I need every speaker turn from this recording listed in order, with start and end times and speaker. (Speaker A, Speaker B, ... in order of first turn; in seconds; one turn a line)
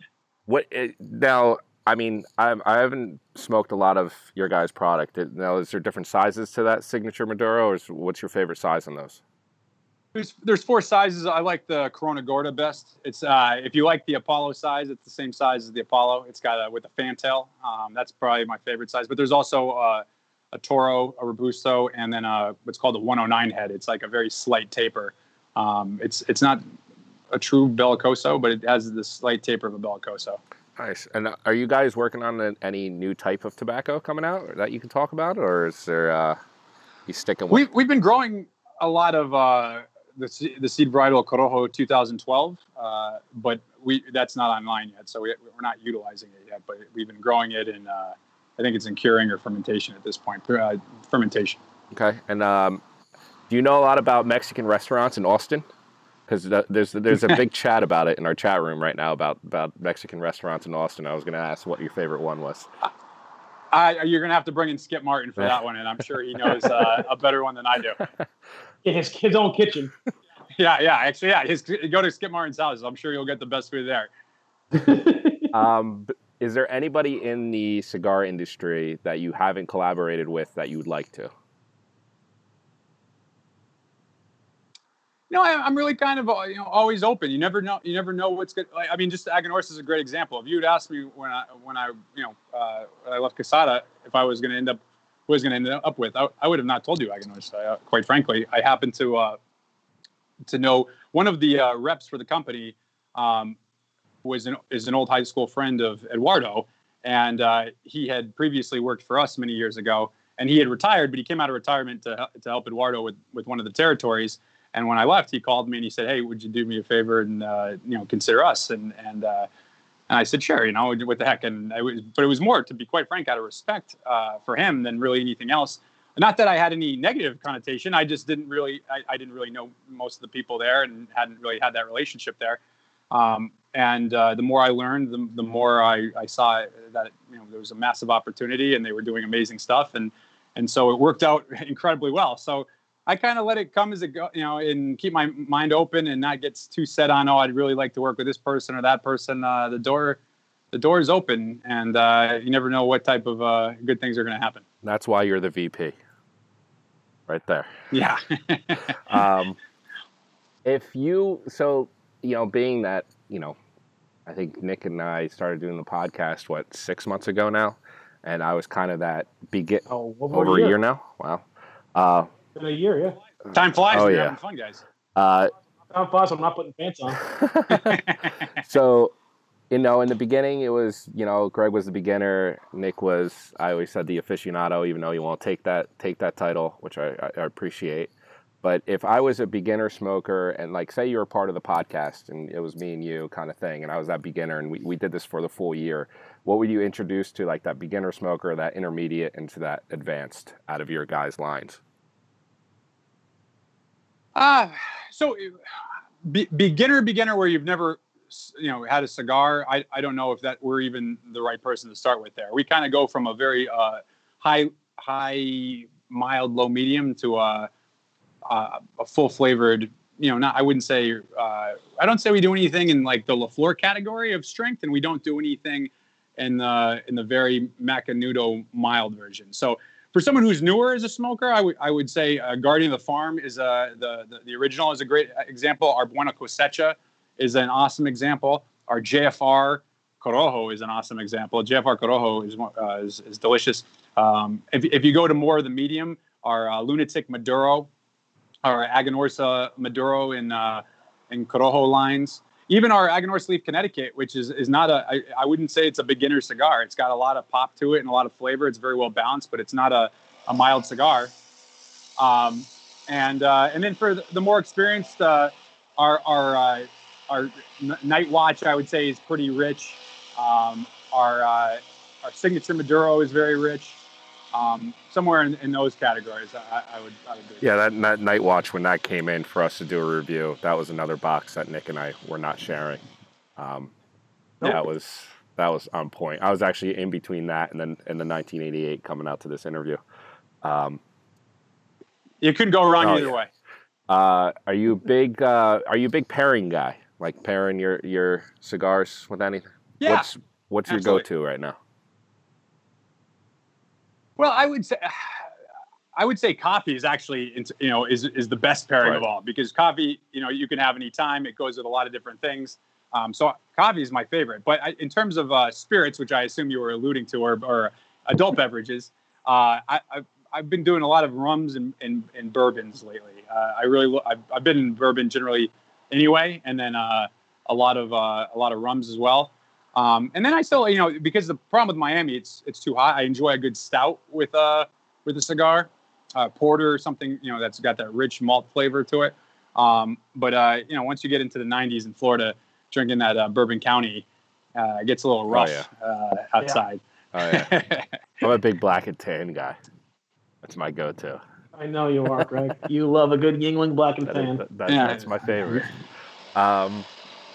Speaker A: 0.5-9.2
Speaker B: 10.1-26.6
Speaker B: 27.3-30.4
Speaker A: 30.8-36.4
Speaker A: 37.1-37.6
Speaker B: 37.5-51.6
Speaker A: 51.9-52.8
Speaker A: 53.5-55.6
Speaker A: 56.3-62.7
Speaker B: 63.7-68.0
Speaker C: 68.8-69.9
Speaker B: 70.5-74.1
Speaker C: 74.7-75.5
Speaker A: 75.5-81.3
Speaker B: 85.3-99.4
Speaker B: 100.5-103.6
Speaker B: 104.2-119.5
Speaker B: 120.1-132.6
Speaker B: 133.1-150.2
Speaker B: 150.7-154.6
Speaker A: 154.8-155.9
Speaker A: 157.3-157.7
Speaker B: 157.9-158.9
Speaker A: 159.1-159.6
Speaker A: 160.6-163.6
Speaker A: 164.2-172.3
Speaker C: 169.9-170.8
Speaker C: 172.6-173.2
Speaker B: 173.5-174.8
Speaker A: 173.9-174.3
Speaker A: 175.2-175.5
Speaker C: 175.9-177.2
Speaker A: 177.2-178.0
Speaker B: 177.7-178.2
Speaker A: 178.6-179.1
Speaker A: 179.7-188.1
Speaker A: 188.6-201.8
Speaker B: 204.3-205.6
Speaker B: 206.2-217.7
Speaker B: 218.4-247.9
Speaker B: 248.6-261.3
Speaker B: 262.2-274.0
Speaker B: 274.5-277.6
Speaker A: 277.6-283.0
Speaker A: 283.6-283.9
Speaker A: 284.6-290.0
Speaker A: 290.6-291.0
Speaker B: 292.4-293.5
Speaker A: 293.0-293.4
Speaker A: 294.1-301.8
Speaker B: 300.0-300.3
Speaker B: 300.9-301.2
Speaker B: 304.4-305.4
Speaker B: 306.1-348.1
Speaker A: 345.5-345.9
Speaker A: 347.3-347.7
Speaker A: 348.4-349.8
Speaker A: 350.6-351.4
Speaker C: 351.8-354.6
Speaker A: 354.2-355.9
Speaker B: 354.9-355.3
Speaker A: 356.5-357.1